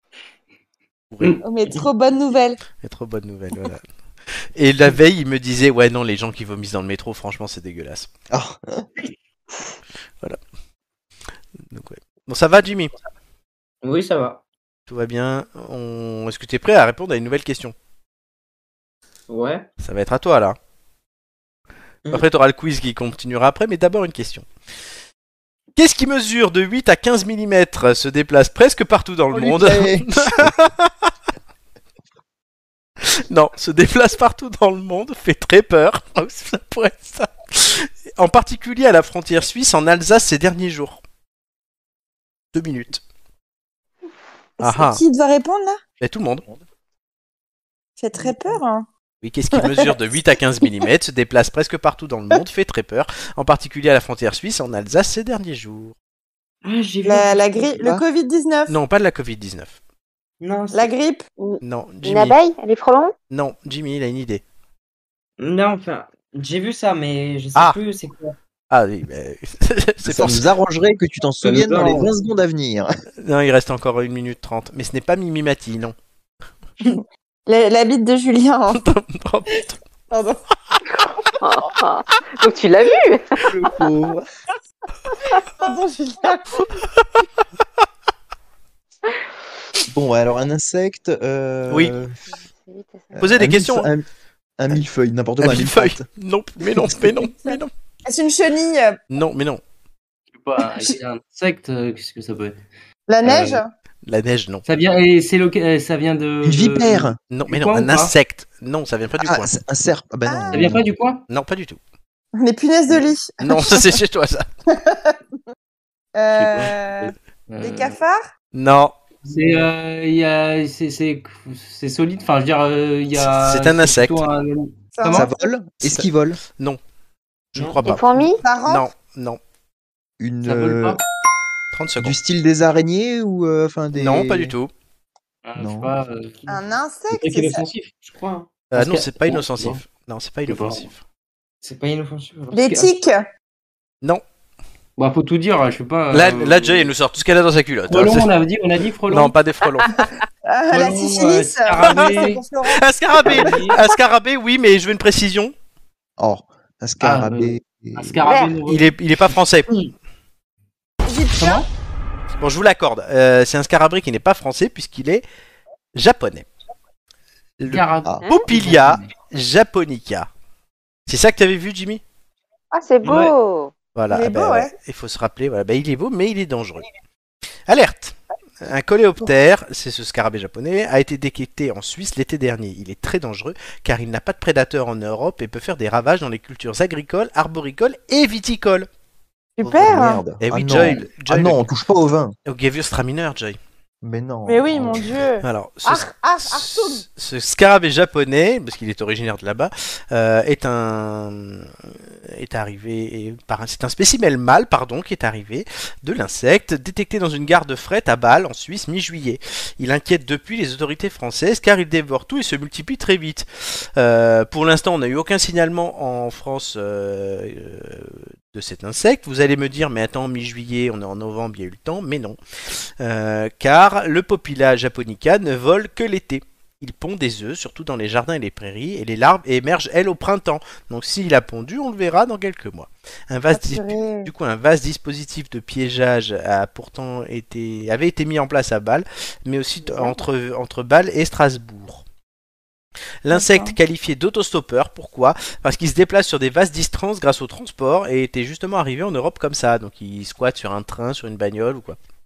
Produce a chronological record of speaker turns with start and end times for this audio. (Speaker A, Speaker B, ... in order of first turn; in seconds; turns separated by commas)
Speaker A: 1.1-1.4, Speaker B: 1.4-2.6, Speaker A: 2.7-3.8, Speaker A: 4.3-8.1, Speaker C: 8.3-8.8, Speaker A: 11.7-12.9, Speaker D: 13.8-14.4, Speaker A: 14.9-17.7, Speaker D: 19.3-19.6, Speaker A: 19.8-20.6, Speaker A: 22.1-24.5, Speaker A: 25.8-31.1, Speaker C: 29.3-30.5, Speaker A: 33.0-41.0, Speaker A: 42.5-43.0, Speaker B: 44.6-45.8, Speaker A: 44.6-45.0, Speaker A: 46.0-46.5, Speaker B: 48.0-48.9, Speaker A: 49.2-55.9, Speaker B: 49.5-50.2, Speaker D: 56.6-57.8, Speaker B: 57.0-58.8, Speaker A: 58.7-59.8, Speaker D: 60.4-60.9, Speaker B: 60.7-61.2, Speaker E: 61.4-63.1, Speaker A: 61.6-62.4, Speaker A: 63.3-64.4, Speaker D: 65.4-68.3, Speaker A: 68.7-70.5, Speaker C: 70.0-72.9, Speaker F: 71.4-72.1, Speaker A: 73.2-76.0, Speaker B: 76.8-78.8, Speaker A: 78.7-79.8, Speaker B: 80.1-80.4, Speaker E: 81.4-83.5, Speaker C: 83.5-84.2, Speaker B: 85.3-86.5, Speaker A: 86.6-87.0, Speaker C: 89.9-92.2, Speaker A: 91.7-91.9, Speaker E: 92.5-93.3, Speaker C: 93.2-94.0, Speaker A: 93.2-93.9, Speaker C: 94.6-96.0, Speaker A: 95.4-97.7, Speaker B: 98.0-99.0, Speaker A: 99.1-99.6, Speaker F: 100.3-102.6, Speaker B: 103.1-103.7, Speaker F: 103.2-103.6, Speaker A: 104.0-104.6, Speaker F: 104.7-108.1, Speaker C: 106.4-107.2, Speaker A: 107.3-109.5, Speaker C: 109.2-110.8, Speaker B: 110.2-110.7, Speaker F: 110.5-111.2, Speaker A: 111.3-111.8, Speaker B: 112.4-114.0, Speaker A: 113.4-114.5, Speaker B: 114.7-115.2, Speaker B: 116.1-118.3, Speaker F: 116.3-118.0, Speaker A: 118.5-118.9, Speaker F: 119.2-125.3, Speaker A: 123.2-124.2, Speaker B: 125.0-125.3, Speaker C: 125.1-126.4, Speaker A: 125.8-126.8, Speaker A: 127.5-129.4, Speaker E: 127.8-128.4, Speaker B: 128.4-128.9, Speaker C: 130.2-131.0, Speaker F: 130.4-131.0, Speaker A: 131.7-132.1, Speaker C: 132.0-134.6, Speaker A: 133.9-134.7, Speaker F: 135.4-138.0, Speaker C: 135.6-135.9, Speaker B: 136.5-137.6, Speaker D: 138.0-138.5, Speaker A: 138.7-141.0, Speaker F: 138.8-139.8, Speaker F: 140.5-140.9, Speaker D: 141.6-142.9, Speaker B: 142.5-143.2, Speaker F: 145.0-146.9, Speaker A: 146.1-148.3, Speaker F: 147.9-149.3, Speaker A: 149.1-150.0, Speaker B: 150.5-153.6, Speaker F: 150.7-152.4, Speaker A: 151.8-155.5, Speaker F: 153.2-153.8, Speaker C: 156.2-158.2, Speaker F: 157.0-158.9, Speaker E: 158.2-158.6, Speaker A: 158.7-159.7, Speaker B: 161.0-161.6, Speaker F: 161.4-161.7, Speaker A: 162.4-165.2, Speaker A: 165.9-166.5, Speaker A: 167.6-170.3, Speaker F: 167.7-169.1, Speaker E: 168.2-168.5, Speaker A: 171.1-172.0, Speaker E: 172.7-173.7, Speaker A: 173.9-176.9, Speaker B: 174.1-174.7, Speaker A: 177.7-188.9, Speaker B: 189.6-190.2, Speaker C: 189.6-192.3, Speaker A: 190.3-191.6, Speaker A: 192.4-193.6, Speaker C: 194.0-195.0, Speaker B: 194.4-197.0, Speaker A: 195.4-242.0, Speaker B: 233.5-234.3, Speaker A: 243.2-252.0, Speaker B: 243.3-243.8